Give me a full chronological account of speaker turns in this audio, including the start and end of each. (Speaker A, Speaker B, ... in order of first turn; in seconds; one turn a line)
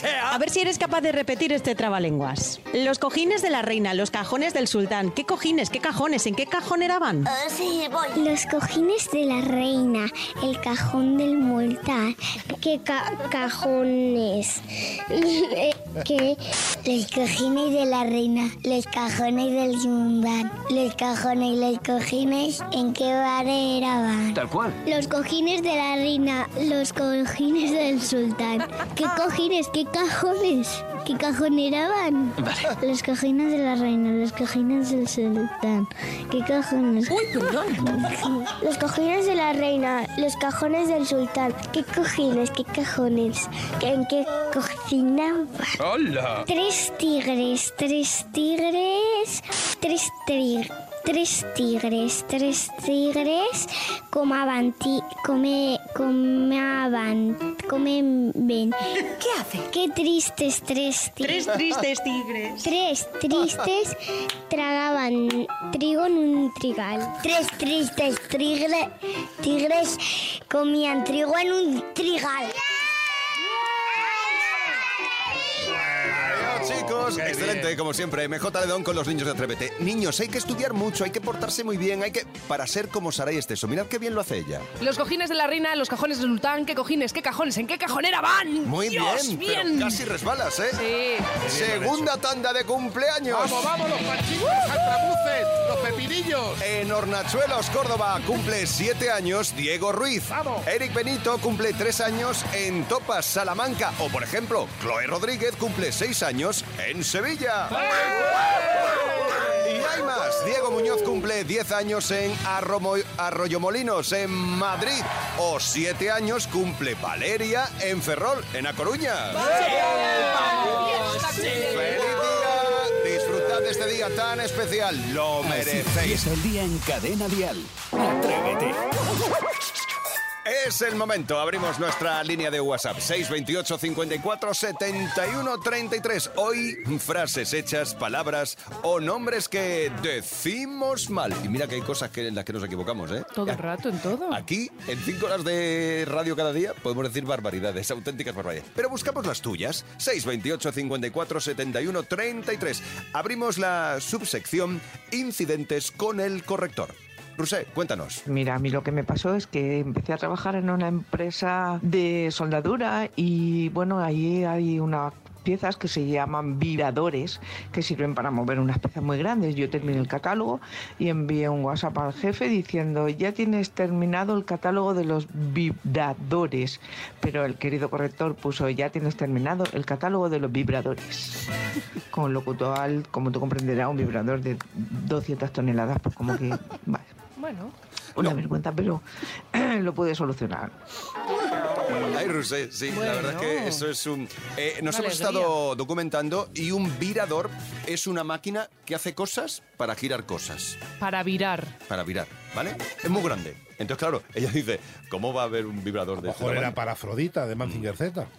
Speaker A: 0.3-7.3
Speaker B: 7.3-37.2
Speaker B: 37.9-45.7
Speaker B: 46.4-58.8
Speaker A: 59.2-59.6
Speaker B: 59.7-61.5
Speaker A: 61.2-62.6
Speaker B: 62.6-72.6
Speaker C: 75.9-77.7
Speaker D: 76.1-84.7
Speaker E: 84.8-90.0
Speaker D: 88.6-90.8
Speaker E: 90.7-91.4
Speaker C: 91.4-92.1
Speaker D: 91.4-93.7
Speaker C: 93.3-96.6
Speaker D: 96.6-107.9
Speaker C: 100.3-100.7
Speaker D: 109.6-126.3
Speaker F: 125.4-128.8
Speaker D: 130.4-143.6
Speaker E: 143.3-144.4
Speaker D: 144.3-158.2
Speaker G: 158.3-181.4
Speaker G: 182.1-187.1
Speaker E: 187.4-187.7
Speaker G: 188.2-190.7
Speaker D: 191.9-200.8
Speaker E: 192.9-193.8
Speaker E: 194.9-195.5
Speaker E: 201.0-201.7
Speaker D: 201.9-206.8
Speaker C: 206.2-208.3